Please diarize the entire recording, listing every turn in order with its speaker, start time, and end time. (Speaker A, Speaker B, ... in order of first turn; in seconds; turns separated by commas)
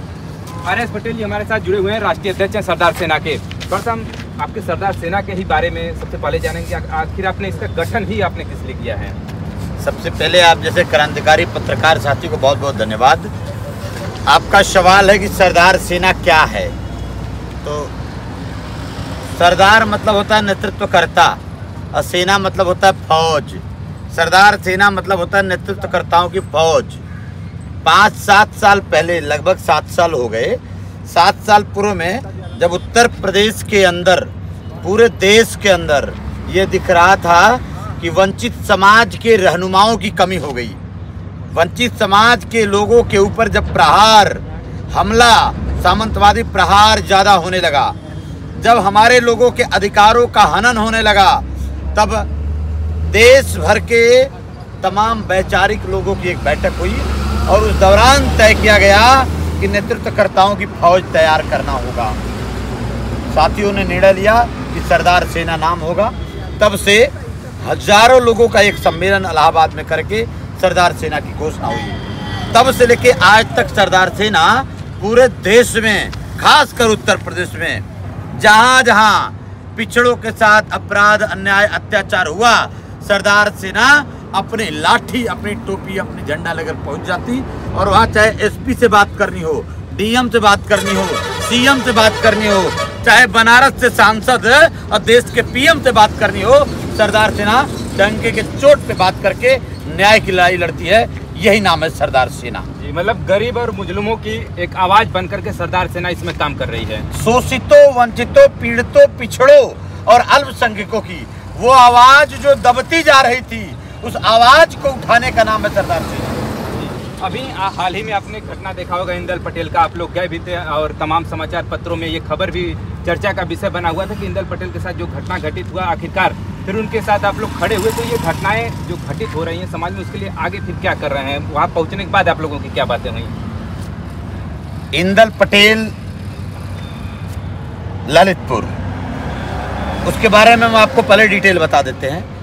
Speaker A: 0.6-9.2, Speaker B: 9.8-13.3, Speaker B: 14.2-16.7, Speaker B: 17.6-17.9, Speaker B: 19.3-21.4, Speaker B: 21.9-27.0, Speaker B: 27.8-40.8, Speaker B: 41.5-48.0, Speaker B: 48.6-52.3, Speaker B: 53.1-54.3, Speaker B: 54.8-62.2, Speaker B: 63.3-72.0, Speaker B: 72.5-102.7, Speaker A: 102.8-107.1, Speaker B: 107.1-116.4, Speaker A: 116.7-133.3, Speaker B: 134.9-135.9, Speaker B: 138.1-138.7, Speaker B: 140.1-142.2